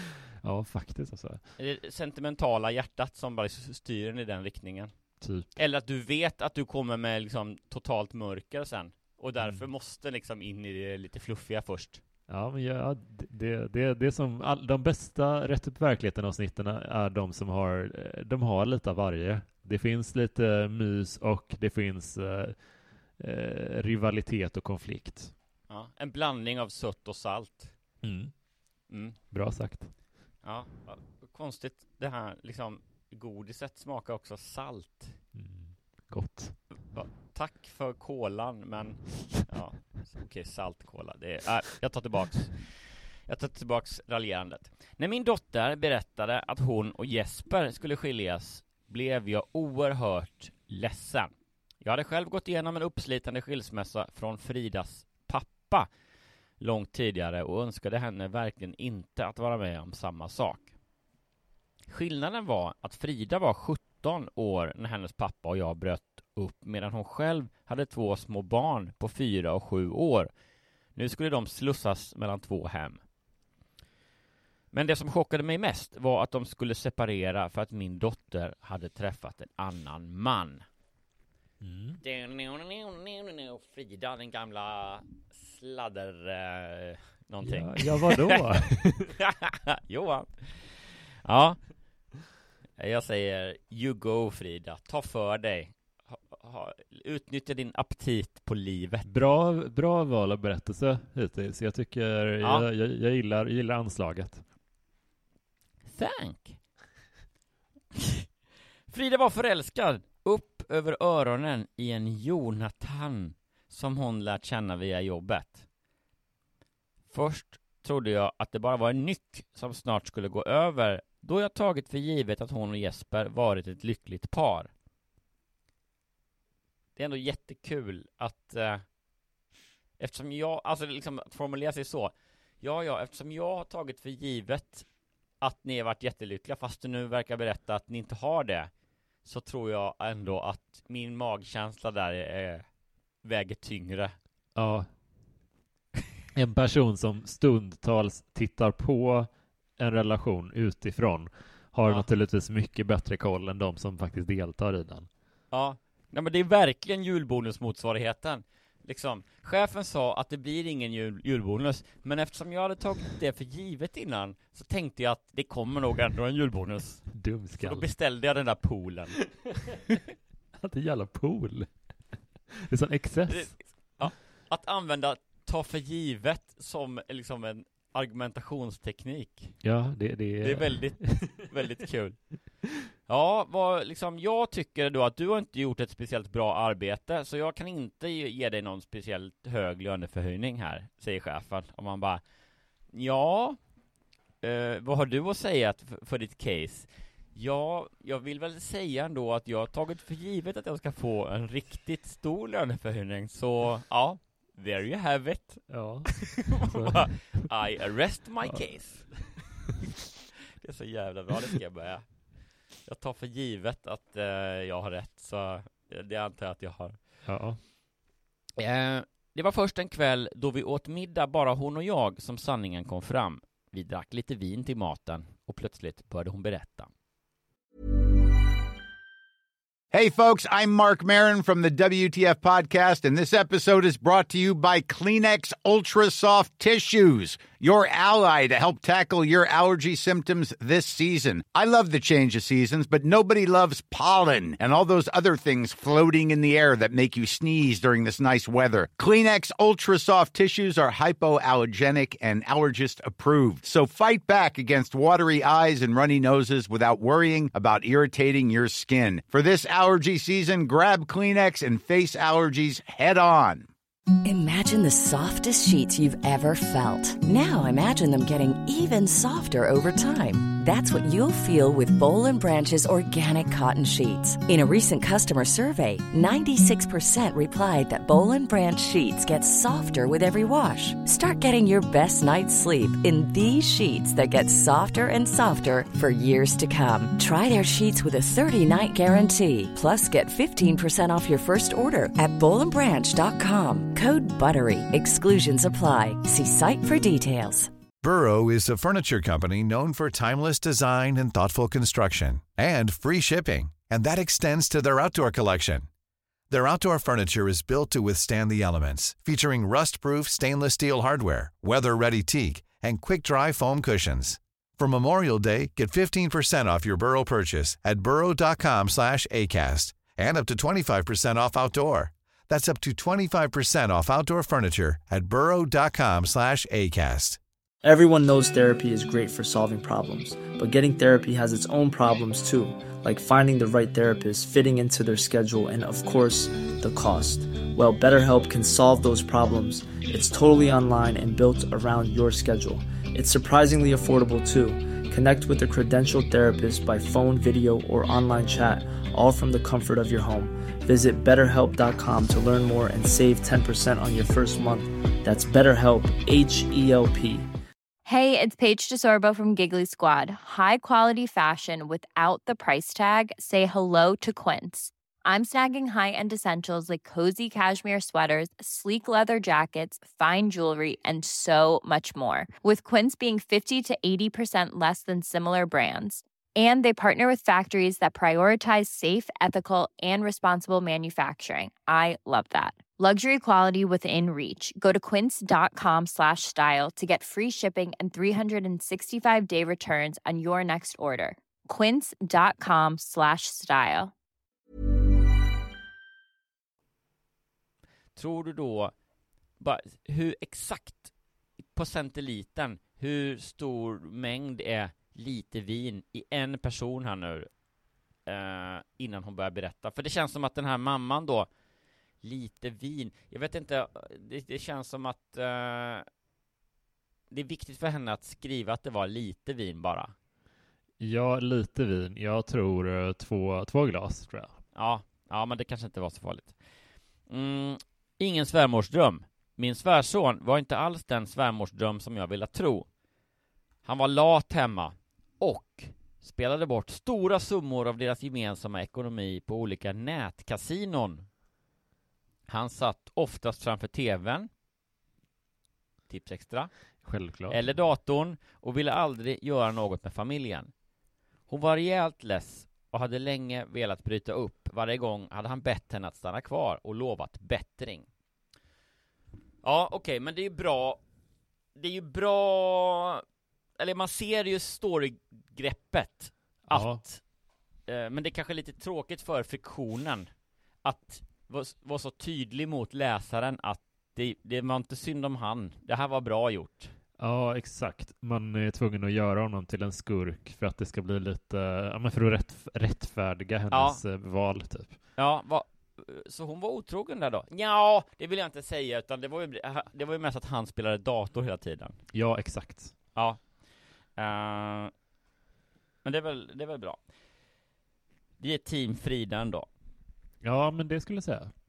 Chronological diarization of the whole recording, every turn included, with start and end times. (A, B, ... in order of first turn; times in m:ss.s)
0:00.4-0:01.5 A
0:01.6-0:04.9 B
0:05.2-0:05.5 A
0:05.5-0:12.0 B
0:12.3-0:22.6 A
0:23.2-0:25.3 A
0:25.7-0:27.7 B
0:28.0-0:28.3 A
0:28.9-0:29.1 B
0:29.3-0:29.9 A
0:30.4-0:35.2 B
0:35.3-0:36.8 A
0:36.9-0:51.3 B
0:51.8-0:55.9 B
0:56.6-1:00.7 B
1:01.9-1:10.3 B
1:10.9-1:13.0 B
1:14.7-1:20.6 B
1:21.6-1:22.0 A
1:22.0-1:28.4 B
1:27.4-1:29.1 A
1:29.2-1:31.6 B
1:32.8-1:39.1 B
1:39.0-1:44.4 A
1:45.9-1:46.6 B
1:48.0-1:48.2 B
1:48.9-1:55.6 B
1:57.1-2:04.7 B
2:07.0-2:08.8 B
2:10.0-2:14.8 B
2:15.4-2:18.7 B
2:19.2-2:22.6 B
2:23.2-2:24.1 B
2:24.6-2:24.9 A
2:26.3-2:35.1 A
2:35.5-2:49.5 B
2:47.1-2:47.9 A
2:50.6-2:51.7 A
2:52.6-2:53.9 A
2:53.3-2:59.6 B
2:59.6-3:01.3 A
3:00.4-3:02.4 B
3:03.1-3:12.2 B
3:12.9-3:13.6 B
3:14.4-3:29.4 B
3:25.7-3:27.5 A
3:28.5-3:29.2 A
3:30.6-3:32.3 B
3:32.8-3:37.0 B
3:37.2-3:37.6 A
3:38.6-3:46.9 B
3:49.9-4:23.7 C
4:24.2-4:57.7 D
4:58.0-5:05.9 E
5:06.5-5:27.4 E
5:27.8-5:57.4 F
5:58.0-6:34.1 G
6:38.2-6:38.9 B
6:39.6-6:41.1 B
6:41.7-6:47.5 B
6:48.3-6:51.5 B
6:52.2-6:56.0 B
6:57.3-7:00.1 B
7:01.0-7:04.6 A
7:04.7-7:06.5 B
7:07.3-7:12.9 B
7:13.8-7:21.2 B
7:22.5-7:24.5 B
7:26.1-7:26.7 B
7:27.0-7:27.8 A
7:27.5-7:30.7 B
7:31.5-7:38.1 B
7:39.6-7:41.0 B
7:41.8-7:43.2 B
7:43.8-7:47.2 B
7:46.7-7:47.0 A
7:47.9-7:50.3 B
7:50.8-7:56.9 B
7:57.2-8:05.0 A
8:03.7-8:04.0 B
8:05.2-8:12.0 B
8:12.1-8:13.0 A
8:13.1-8:13.4 B
8:14.2-8:14.9 B
8:16.0-8:17.0 B
8:18.4-8:19.7 B
8:20.4-8:21.5 A